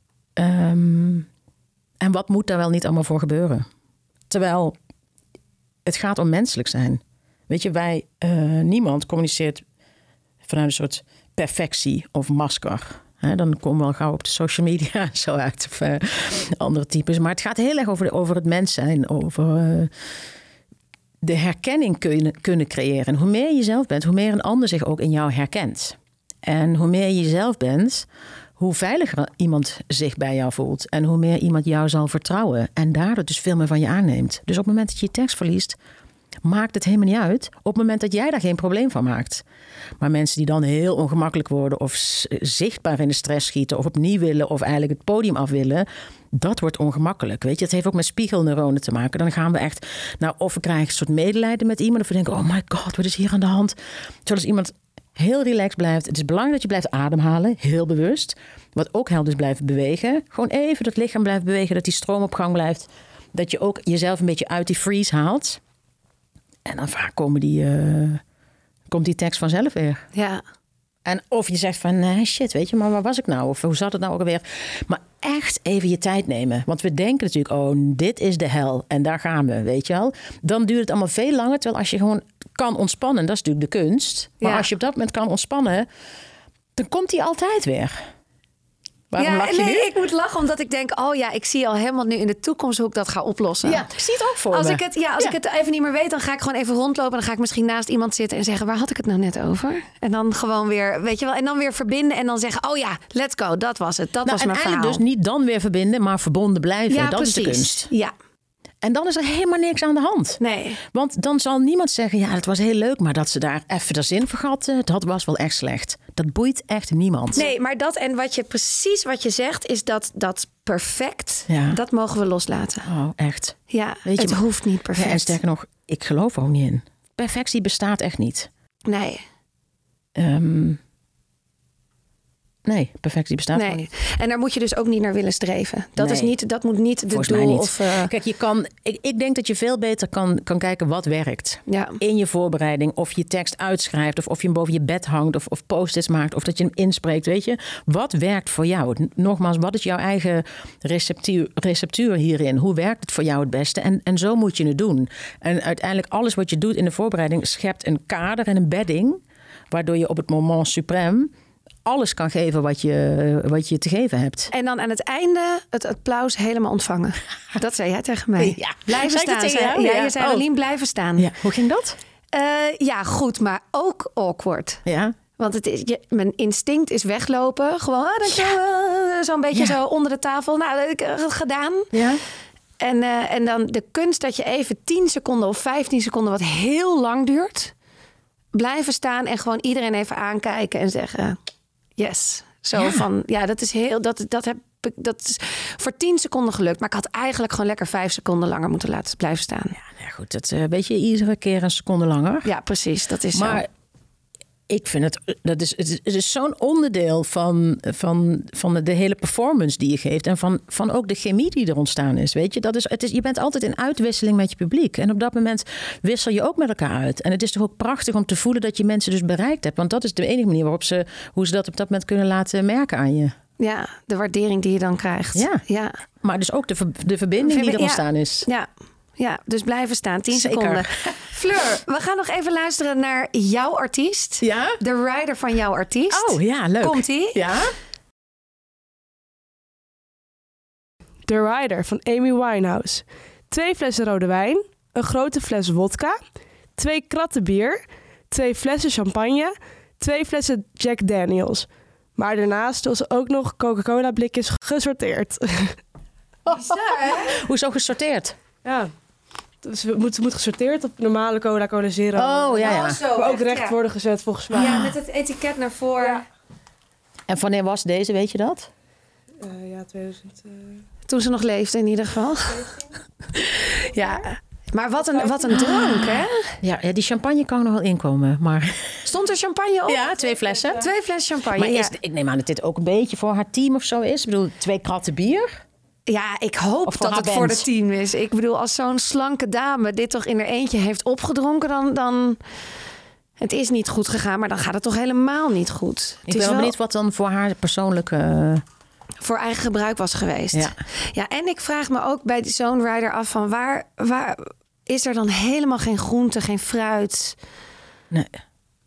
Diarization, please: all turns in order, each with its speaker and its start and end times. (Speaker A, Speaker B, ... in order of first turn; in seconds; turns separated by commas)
Speaker A: 0.4-1.3, Speaker A: 2.0-3.7, Speaker A: 4.3-4.8, Speaker A: 5.8-9.6, Speaker A: 10.4-19.9, Speaker A: 21.2-28.1, Speaker A: 28.6-35.8, Speaker A: 36.4-39.4, Speaker A: 40.0-65.6, Speaker A: 66.7-68.2, Speaker A: 68.9-70.0, Speaker B: 70.1-70.4, Speaker A: 71.0-85.9, Speaker B: 84.4-84.7, Speaker A: 86.8-88.0, Speaker A: 89.1-89.9, Speaker B: 89.2-93.9, Speaker A: 93.6-95.3, Speaker B: 94.5-105.0, Speaker A: 104.2-107.9, Speaker B: 106.9-108.1, Speaker A: 108.8-117.5, Speaker B: 110.4-110.8, Speaker B: 117.3-122.9, Speaker A: 121.5-121.8, Speaker A: 122.9-124.4, Speaker B: 123.7-125.4, Speaker A: 124.9-128.5, Speaker B: 128.9-129.2, Speaker A: 130.2-130.8, Speaker A: 132.7-133.9, Speaker B: 133.5-138.1, Speaker A: 136.0-136.3, Speaker A: 137.1-161.3, Speaker B: 141.7-142.0, Speaker A: 161.8-164.5, Speaker B: 164.5-171.3, Speaker A: 168.4-170.5, Speaker A: 171.2-172.0, Speaker B: 172.3-174.8, Speaker A: 174.9-175.2, Speaker B: 175.4-181.9, Speaker A: 181.9-182.2, Speaker B: 182.8-187.7, Speaker B: 188.5-191.4, Speaker B: 192.0-199.8, Speaker A: 192.8-193.0, Speaker A: 199.8-202.5, Speaker B: 202.4-203.6, Speaker A: 203.3-203.7, Speaker A: 204.7-223.3, Speaker B: 223.6-226.0, Speaker A: 225.3-225.6, Speaker A: 226.2-228.5, Speaker B: 227.4-237.4, Speaker A: 230.3-231.1, Speaker A: 234.4-234.8, Speaker A: 236.1-237.7, Speaker C: 241.3-246.2, Speaker C: 246.8-255.8, Speaker A: 256.5-258.4, Speaker B: 256.5-257.3, Speaker C: 258.6-258.9, Speaker C: 259.6-264.9, Speaker A: 262.1-263.0, Speaker B: 262.6-263.8, Speaker B: 264.5-266.2, Speaker A: 267.3-268.7, Speaker C: 269.4-270.7, Speaker B: 271.1-272.7, Speaker B: 273.5-276.6, Speaker A: 275.5-279.0, Speaker B: 279.1-281.9, Speaker A: 279.9-280.9, Speaker A: 281.5-285.5, Speaker B: 286.1-292.4, Speaker A: 286.9-287.6, Speaker B: 293.4-296.7, Speaker A: 296.3-298.6, Speaker B: 299.2-307.4, Speaker A: 308.1-308.4